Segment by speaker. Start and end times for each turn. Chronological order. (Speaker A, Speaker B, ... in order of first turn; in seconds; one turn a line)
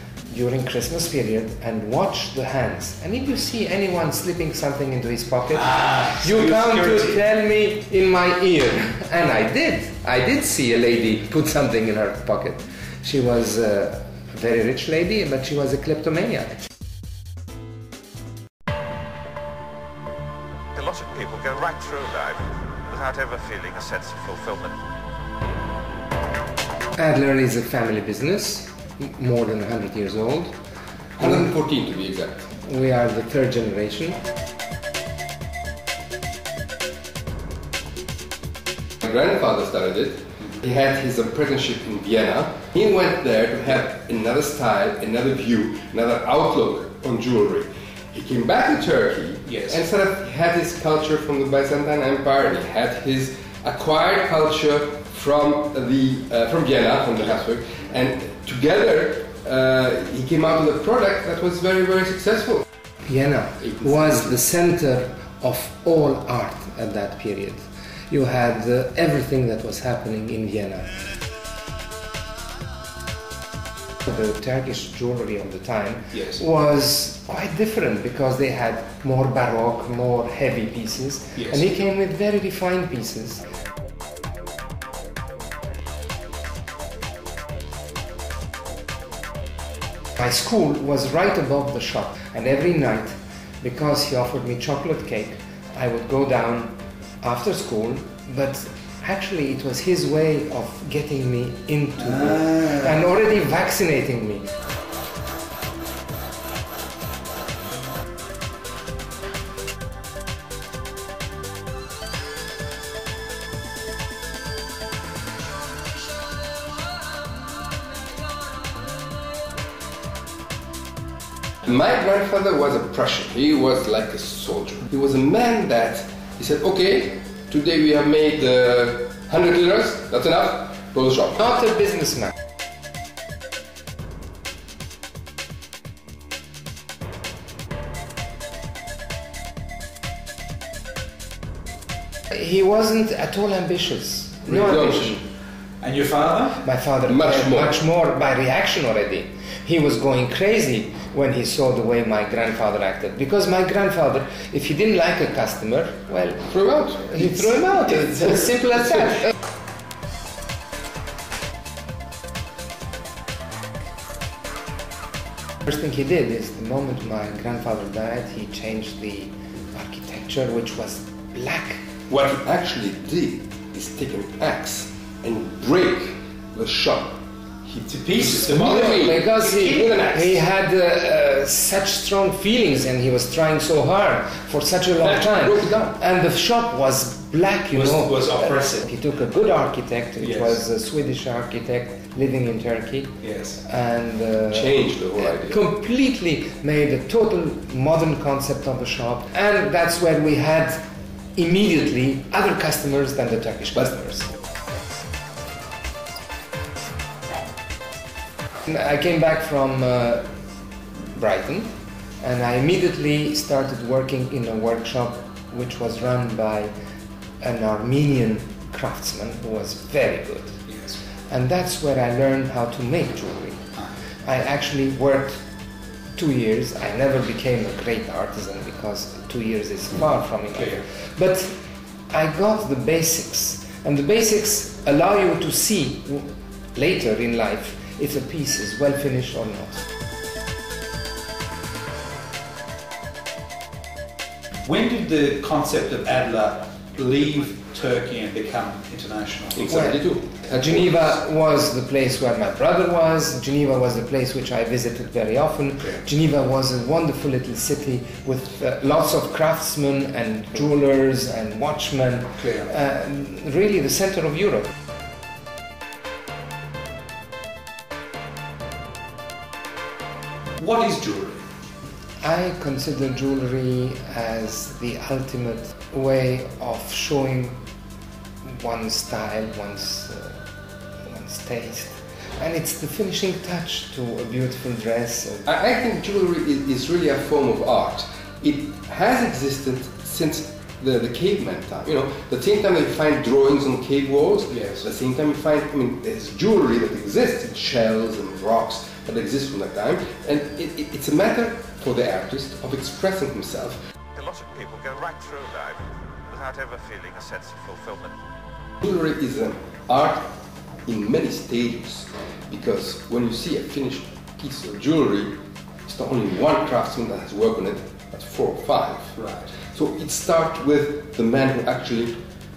Speaker A: 0.3-16.6
Speaker B: 5.7-7.1
Speaker C: 20.8-24.8
Speaker A: 27.0-30.6
Speaker D: 31.2-32.5
Speaker A: 31.2-31.5
Speaker A: 32.6-34.2
Speaker D: 39.0-62.6
Speaker B: 49.5-49.7
Speaker A: 63.1-71.0
Speaker A: 74.1-83.4
Speaker B: 76.1-76.4
Speaker A: 90.2-104.5
Speaker D: 121.7-131.6
Speaker A: 131.5-132.3
Speaker A: 142.3-145.3
Speaker D: 144.5-145.2
Speaker B: 145.8-146.6
Speaker A: 146.6-159.3
Speaker D: 147.1-147.8
Speaker D: 156.5-157.2
Speaker A: 165.7-171.8
Speaker D: 172.1-177.2
Speaker B: 177.7-180.0
Speaker D: 178.2-179.3
Speaker A: 178.7-200.8
Speaker D: 179.8-180.1
Speaker D: 185.0-186.0
Speaker B: 187.8-188.9
Speaker B: 190.2-190.5
Speaker B: 193.2-193.6
Speaker D: 194.5-195.6
Speaker A: 201.3-204.3
Speaker A: 208.7-210.2
Speaker A: 211.1-216.7
Speaker A: 217.4-220.7
Speaker B: 220.7-221.0
Speaker A: 221.3-223.7
Speaker A: 224.2-225.4
Speaker A: 226.2-231.6
Speaker B: 230.6-230.8
Speaker A: 232.1-239.8
Speaker B: 244.7-249.7
Speaker D: 249.6-250.9
Speaker A: 249.7-264.7
Speaker B: 262.4-262.7
Speaker B: 270.6-271.5
Speaker A: 272.2-277.6
Speaker A: 278.4-280.5
Speaker A: 281.0-285.5
Speaker D: 285.5-303.8
Speaker B: 294.5-294.8
Speaker C: 304.1-308.1
Speaker D: 308.8-310.3
Speaker D: 310.9-315.4
Speaker D: 315.9-322.2
Speaker B: 319.2-319.5